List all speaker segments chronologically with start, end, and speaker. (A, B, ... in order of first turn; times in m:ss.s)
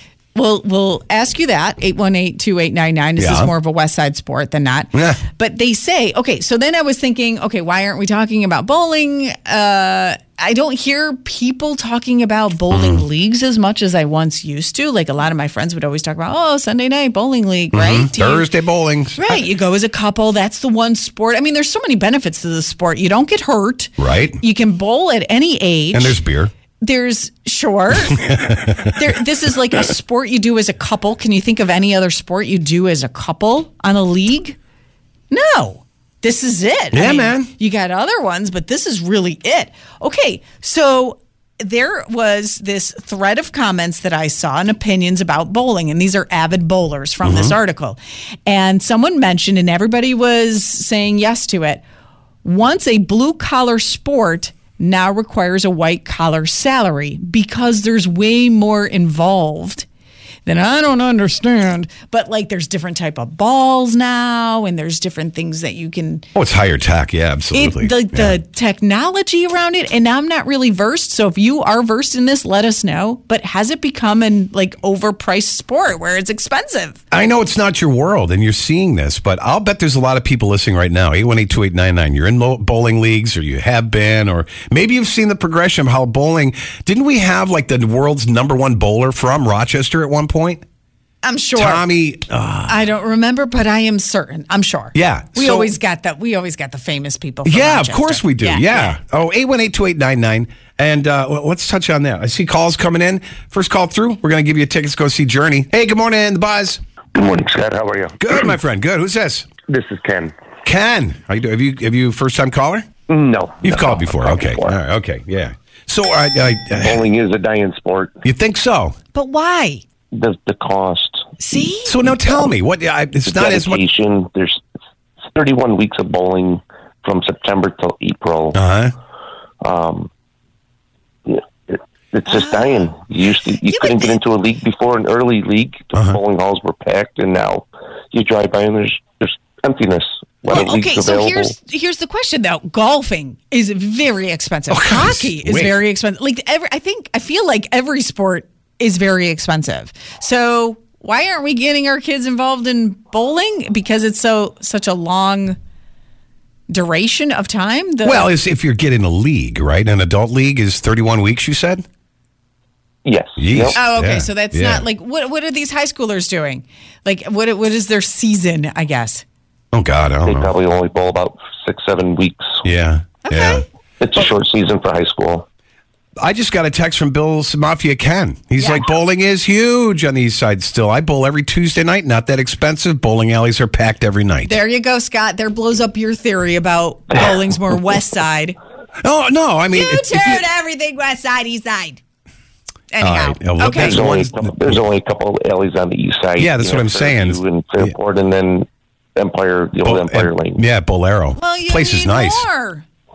0:00.4-0:18.5 A
0:03.2-0:03.5 B
0:04.9-0:05.2 B
0:12.7-0:13.0 B
0:17.7-0:19.5 B
0:19.2-0:26.2 A
0:24.0-0:24.4 B
0:25.9-0:26.5 B
0:26.8-0:28.3 A
0:28.1-0:29.0 B
0:28.9-0:34.6 A
0:35.3-0:51.8 A
0:36.9-0:37.5 B
0:47.2-0:47.6 B
0:52.4-0:59.9 A
1:00.4-1:06.3 A
1:06.4-1:08.4 B
1:07.5-1:17.0 A
1:17.1-1:30.6 B
1:31.2-1:31.9 A
1:31.6-1:32.8 B
1:32.7-1:38.9 A
1:34.9-1:35.7 B
1:37.4-1:46.8 B
1:47.2-1:48.4 C
1:48.2-1:49.5 B
1:49.6-1:50.4 C
1:50.6-1:52.9 B
1:53.1-1:54.8 C
1:53.6-1:57.0 B
1:56.8-1:58.2 C
1:58.2-1:59.0 B
1:59.1-1:59.8 A
2:00.1-2:01.3 C
2:01.4-2:02.1 A
2:01.8-2:03.8 B
2:03.2-2:04.6 C
2:05.3-2:08.6 C
2:08.5-2:08.9 B
2:09.6-2:10.1 C
2:11.2-2:21.5 C
2:12.2-2:12.9 A
2:13.6-2:14.2 A
2:20.5-2:35.6 A
2:24.7-2:25.8 B
2:36.7-2:38.3 A
2:38.0-2:41.8 B
2:43.0-2:43.8 C
2:43.4-2:44.8 B
2:43.7-2:49.2 A
2:49.7-2:50.5 B
2:50.2-2:52.6 C
2:52.6-2:53.6 B
2:53.2-2:53.6 A
2:54.0-2:55.4 C
2:56.2-3:04.6 B
2:58.6-2:58.9 A
3:04.5-3:08.6 A
3:09.0-3:10.4 B
3:09.7-3:12.0 A
3:12.9-3:14.0 A
3:13.0-3:14.8 B
3:13.7-3:20.6 C
3:16.4-3:18.0 B
3:19.8-3:22.5 B
3:21.4-3:22.9 A